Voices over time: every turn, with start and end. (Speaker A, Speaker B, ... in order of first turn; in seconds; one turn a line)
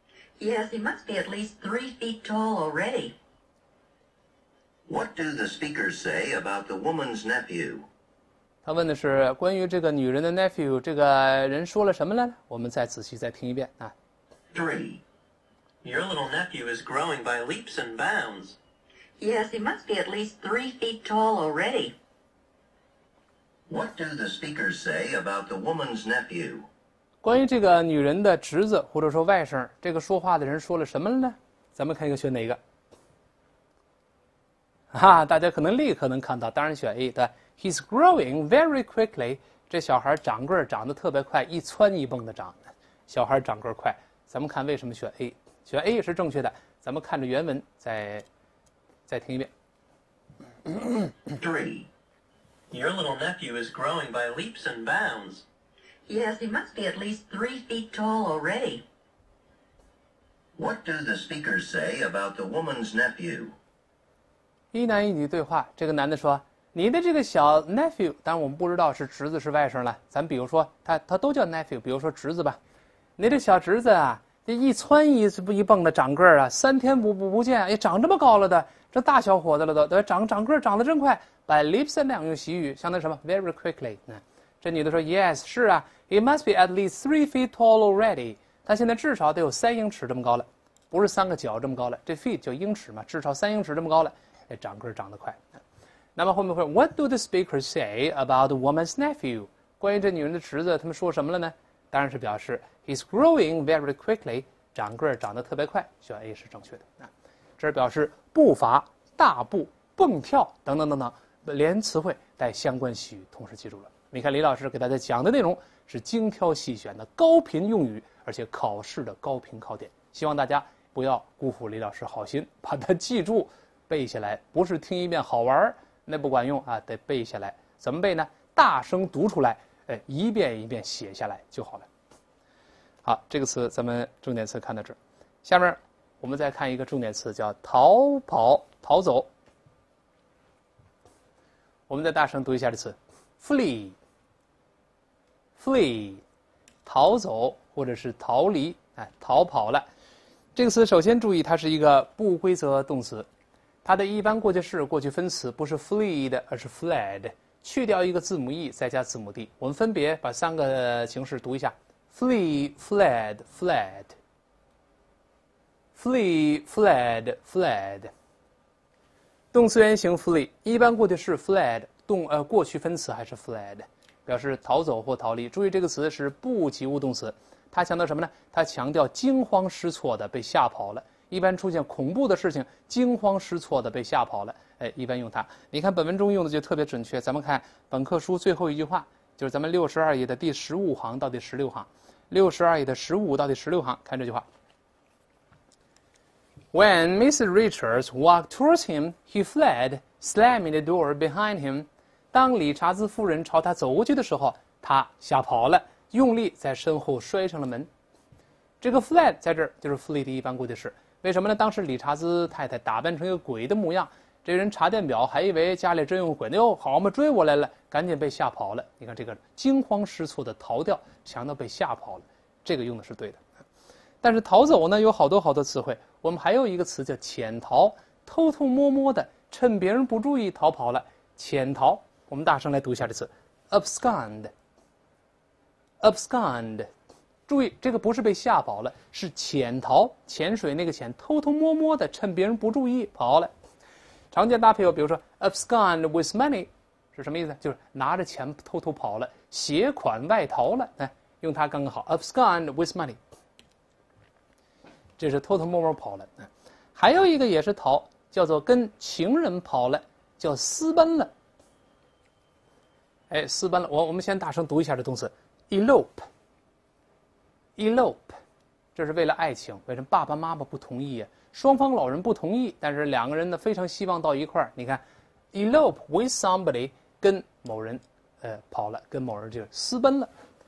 Speaker A: 0.4-3.1
Speaker B: 4.9-7.9
Speaker C: 8.7-13.9
Speaker B: 14.5-15.0
Speaker D: 15.8-18.6
Speaker A: 19.2-21.9
Speaker B: 23.7-26.7
Speaker C: 27.2-32.6
Speaker C: 34.9-48.2
Speaker C: 49.1-49.5
Speaker B: 51.3-51.9
Speaker D: 52.7-55.4
Speaker A: 56.1-58.8
Speaker B: 60.6-63.5
Speaker C: 64.7-72.6
Speaker C: 73.2-95.6
Speaker C: 96.2-131.9
Speaker C: 133.0-139.3
Speaker C: 141.9-144.0
Speaker C: 145.6-146.2
Speaker C: 146.8-149.9
Speaker C: 150.6-153.3
Speaker C: 153.8-164.2
Speaker C: 165.9-168.1
Speaker C: 169.5-194.4
Speaker C: 196.7-207.9
Speaker C: 208.8-223.4
Speaker C: 224.2-234.5
Speaker C: 236.0-236.9
Speaker C: 237.5-243.5
Speaker C: 244.3-253.2
Speaker C: 255.2-261.3
Speaker C: 263.3-266.3
Speaker C: 267.8-268.4
Speaker C: 268.9-275.0
Speaker C: 275.5-280.3